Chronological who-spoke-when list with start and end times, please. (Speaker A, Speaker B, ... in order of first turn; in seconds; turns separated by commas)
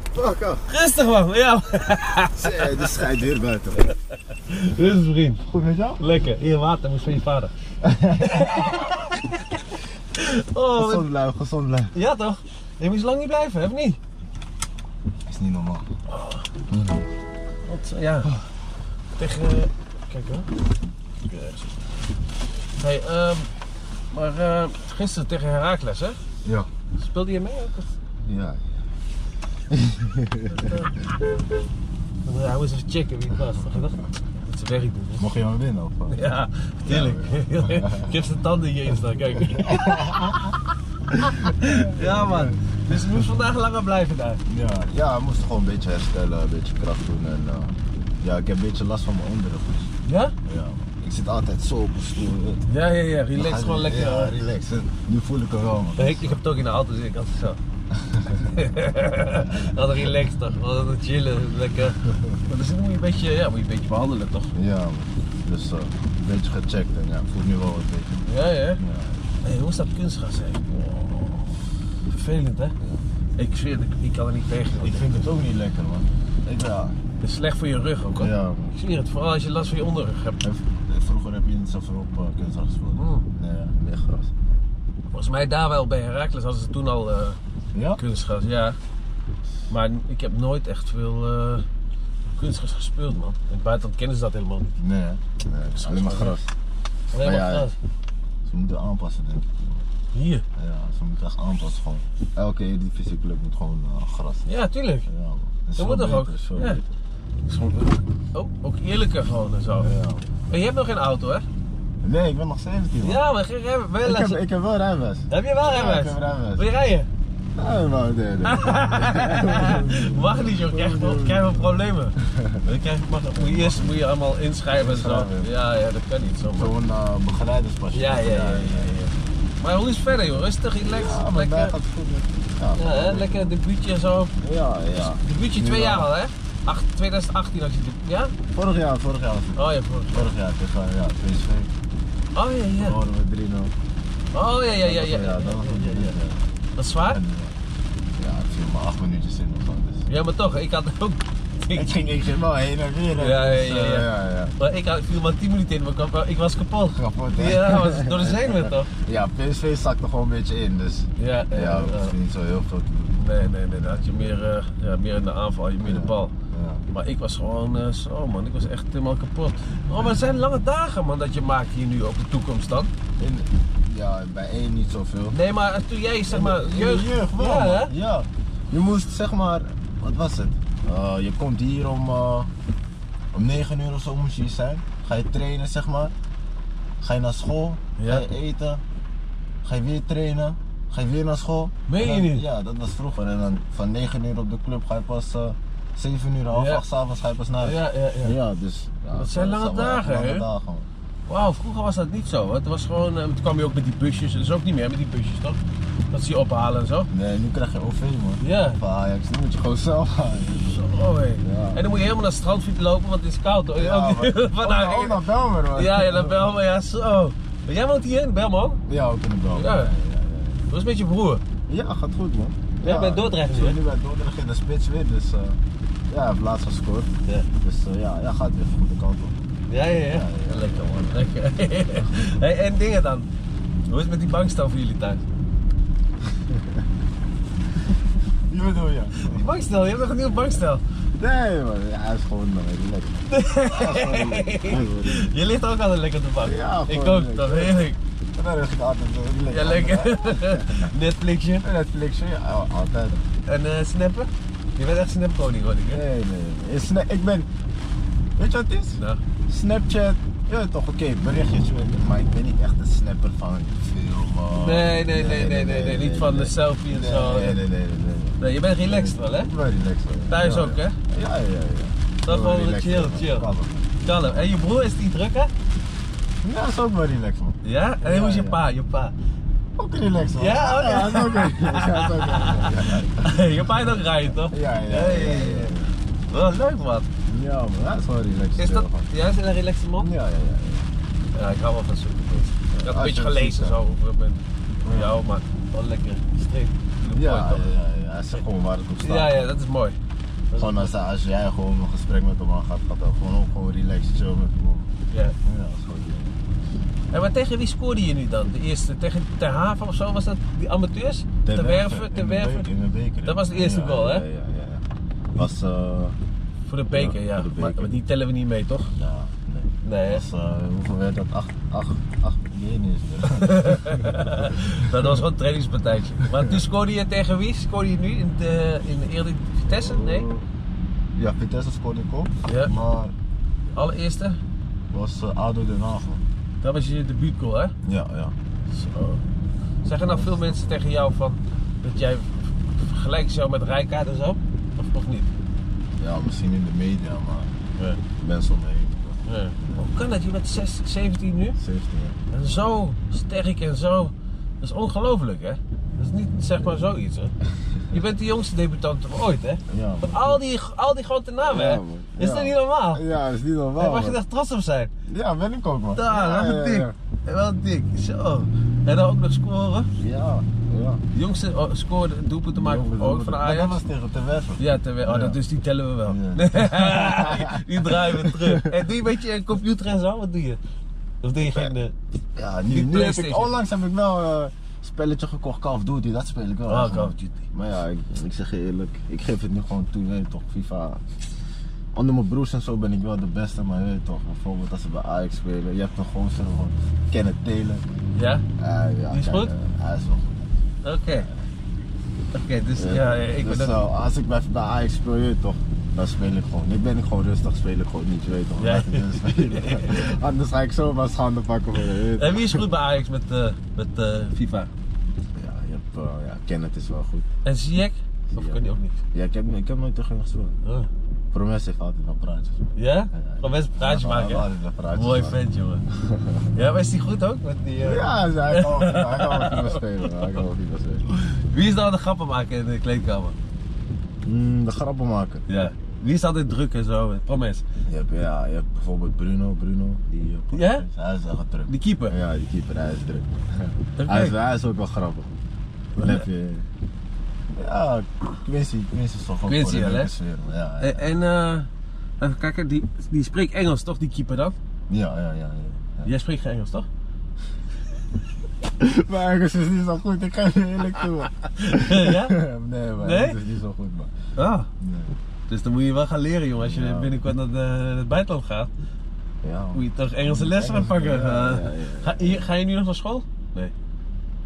Speaker A: 0.1-0.7, Speaker B: 0.7-2.9, Speaker A: 2.4-3.9, Speaker B: 4.5-5.4, Speaker A: 5.4-6.0, Speaker B: 6.0-7.5, Speaker A: 7.8-8.9, Speaker B: 8.2-9.6, Speaker B: 10.1-11.1, Speaker A: 10.8-11.9, Speaker B: 11.9-14.0, Speaker A: 15.3-15.9, Speaker B: 16.1-16.5, Speaker A: 16.7-17.1, Speaker B: 17.6-18.3, Speaker B: 19.2-20.5, Speaker B: 21.2-21.7, Speaker B: 22.8-23.5, Speaker B: 24.1-26.2, Speaker A: 26.4-26.7, Speaker B: 27.0-27.9, Speaker A: 28.2-28.9, Speaker A: 29.7-30.9, Speaker B: 30.5-31.0, Speaker B: 32.2-35.2, Speaker A: 35.2-36.2, Speaker B: 36.1-40.2, Speaker A: 36.9-38.3, Speaker A: 39.4-43.3, Speaker B: 41.2-44.4, Speaker A: 44.5-49.9, Speaker B: 50.0-50.3, Speaker A: 50.5-52.6, Speaker B: 52.7-54.3, Speaker A: 53.4-56.4, Speaker B: 56.0-57.6, Speaker A: 57.9-58.5, Speaker B: 58.3-64.5, Speaker A: 59.4-59.8, Speaker A: 62.0-62.4, Speaker A: 64.5-68.2, Speaker B: 68.2-68.8, Speaker A: 68.8-69.2, Speaker B: 69.4-70.9, Speaker A: 70.7-71.6, Speaker B: 72.1-72.8, Speaker B: 73.4-75.3, Speaker A: 74.7-77.0, Speaker B: 77.2-80.4, Speaker A: 78.2-78.7, Speaker A: 80.4-84.3, Speaker B: 83.0-83.3, Speaker B: 85.1-87.4, Speaker A: 87.7-88.0, Speaker B: 88.0-88.8, Speaker B: 89.7-91.6, Speaker B: 92.3-94.8, Speaker A: 94.8-96.5, Speaker B: 95.8-96.4, Speaker B: 97.1-97.8, Speaker A: 97.1-97.7, Speaker A: 98.5-99.9, Speaker B: 100.1-100.4, Speaker A: 100.6-104.5, Speaker B: 104.5-105.1, Speaker A: 105.1-106.9, Speaker B: 105.8-106.8, Speaker B: 107.5-109.9, Speaker A: 109.8-110.3, Speaker B: 110.5-111.5, Speaker A: 112.0-113.2, Speaker B: 113.0-114.4, Speaker A: 114.0-116.7, Speaker B: 115.3-117.1, Speaker A: 117.6-122.6, Speaker B: 118.4-126.7, Speaker A: 123.3-124.0, Speaker A: 124.7-125.5, Speaker A: 126.5-129.2, Speaker B: 127.9-131.7, Speaker A: 130.8-133.6, Speaker B: 132.8-134.3, Speaker A: 134.4-136.1, Speaker B: 134.9-138.3, Speaker A: 138.5-141.7, Speaker B: 139.6-140.3, Speaker B: 142.3-143.0, Speaker A: 142.8-143.7, Speaker B: 144.3-146.2, Speaker A: 144.7-146.5, Speaker B: 146.8-147.2, Speaker A: 147.0-147.6, Speaker A: 148.2-150.1, Speaker B: 150.1-151.9, Speaker A: 151.7-154.5, Speaker B: 153.2-158.9, Speaker A: 156.9-164.3, Speaker B: 161.2-162.1, Speaker B: 163.2-166.3, Speaker A: 165.8-166.8, Speaker B: 166.9-172.9, Speaker A: 173.2-175.3, Speaker B: 175.3-177.9, Speaker A: 176.3-182.5, Speaker A: 183.3-186.1, Speaker A: 187.0-188.8, Speaker B: 188.0-188.2, Speaker A: 189.6-200.9, Speaker B: 191.9-192.4, Speaker B: 196.5-196.8, Speaker B: 197.6-198.4, Speaker B: 199.2-200.4, Speaker B: 201.3-205.6, Speaker B: 206.1-207.1, Speaker A: 207.1-210.8, Speaker B: 208.4-208.8, Speaker B: 210.6-215.2, Speaker A: 211.4-211.8, Speaker A: 213.7-216.5, Speaker B: 215.7-218.8, Speaker A: 218.9-220.7, Speaker B: 219.5-219.9, Speaker B: 220.7-221.4, Speaker A: 221.7-229.4, Speaker B: 222.8-223.8, Speaker B: 229.7-233.3, Speaker A: 230.0-231.3, Speaker A: 232.0-232.4, Speaker B: 233.9-235.2, Speaker A: 236.3-236.8, Speaker A: 238.5-239.5, Speaker B: 239.2-240.8, Speaker A: 241.2-245.3, Speaker B: 243.3-248.0, Speaker A: 246.4-250.9, Speaker B: 249.5-251.6, Speaker A: 251.6-253.2, Speaker B: 253.5-256.0, Speaker A: 255.9-257.5, Speaker A: 258.4-273.9, Speaker B: 264.6-267.6, Speaker B: 268.4-269.5, Speaker B: 270.3-271.0, Speaker B: 272.2-273.5, Speaker B: 274.0-275.5, Speaker A: 276.4-278.6, Speaker B: 277.6-279.1, Speaker A: 279.8-285.9, Speaker B: 280.4-285.8, Speaker B: 286.3-287.1, Speaker A: 287.3-289.1, Speaker B: 288.6-290.1, Speaker A: 290.0-290.9, Speaker B: 291.3-297.7, Speaker A: 292.7-293.8, Speaker A: 294.8-295.2, Speaker A: 297.1-299.6, Speaker B: 299.0-300.0, Speaker B: 300.5-300.9, Speaker A: 300.6-306.4, Speaker B: 305.1-305.4, Speaker B: 307.1-312.7, Speaker A: 311.4-314.8, Speaker B: 313.2-314.2, Speaker A: 315.3-316.2, Speaker B: 316.7-318.9, Speaker A: 316.9-317.9, Speaker A: 318.9-325.2, Speaker B: 319.8-320.2, Speaker B: 323.3-330.3, Speaker A: 326.2-326.5, Speaker A: 329.7-330.4, Speaker A: 331.1-333.1, Speaker B: 332.4-332.7, Speaker B: 333.8-334.4, Speaker A: 334.9-336.2, Speaker B: 336.6-337.7, Speaker A: 337.8-338.3, Speaker B: 338.7-339.2, Speaker B: 339.8-345.3, Speaker A: 340.0-340.8, Speaker A: 346.0-347.6, Speaker A: 348.1-349.9, Speaker B: 349.2-351.6, Speaker A: 351.6-352.2, Speaker B: 352.3-357.3, Speaker B: 357.9-363.0, Speaker A: 359.7-360.4, Speaker A: 361.4-364.2, Speaker B: 363.8-364.9, Speaker A: 365.1-366.9, Speaker B: 365.9-369.9, Speaker A: 370.0-371.0, Speaker B: 371.1-373.8, Speaker A: 372.5-375.4, Speaker B: 374.6-380.6, Speaker A: 376.1-378.9, Speaker B: 381.2-381.9, Speaker A: 381.4-381.7, Speaker A: 382.3-391.0, Speaker B: 382.7-383.5, Speaker B: 386.7-387.4, Speaker A: 391.9-397.8, Speaker B: 398.1-398.4, Speaker A: 398.6-400.5, Speaker B: 399.1-399.5, Speaker B: 400.8-401.3, Speaker A: 401.1-401.5, Speaker B: 402.3-403.8, Speaker A: 402.8-412.7, Speaker B: 408.6-410.2, Speaker B: 412.1-414.7, Speaker A: 415.3-417.3, Speaker B: 417.4-419.0, Speaker A: 418.3-420.6, Speaker B: 420.6-420.9, Speaker A: 421.3-425.4, Speaker B: 422.8-425.8, Speaker A: 425.9-426.5, Speaker B: 426.5-430.4, Speaker A: 427.8-431.1, Speaker B: 431.1-433.4, Speaker A: 434.2-435.4, Speaker B: 435.5-437.6, Speaker A: 437.9-445.3, Speaker B: 440.5-440.9, Speaker B: 441.7-442.1, Speaker B: 444.0-444.3, Speaker B: 445.9-446.2, Speaker A: 446.0-446.7, Speaker A: 447.5-451.1, Speaker B: 449.4-450.1, Speaker B: 450.8-454.6, Speaker A: 454.9-456.1, Speaker B: 456.1-456.9, Speaker A: 458.8-464.1, Speaker B: 461.6-462.4, Speaker B: 463.0-463.4, Speaker B: 464.4-464.7, Speaker A: 464.8-465.1, Speaker B: 465.5-468.7, Speaker A: 466.6-467.2, Speaker A: 469.4-472.5, Speaker B: 469.7-473.7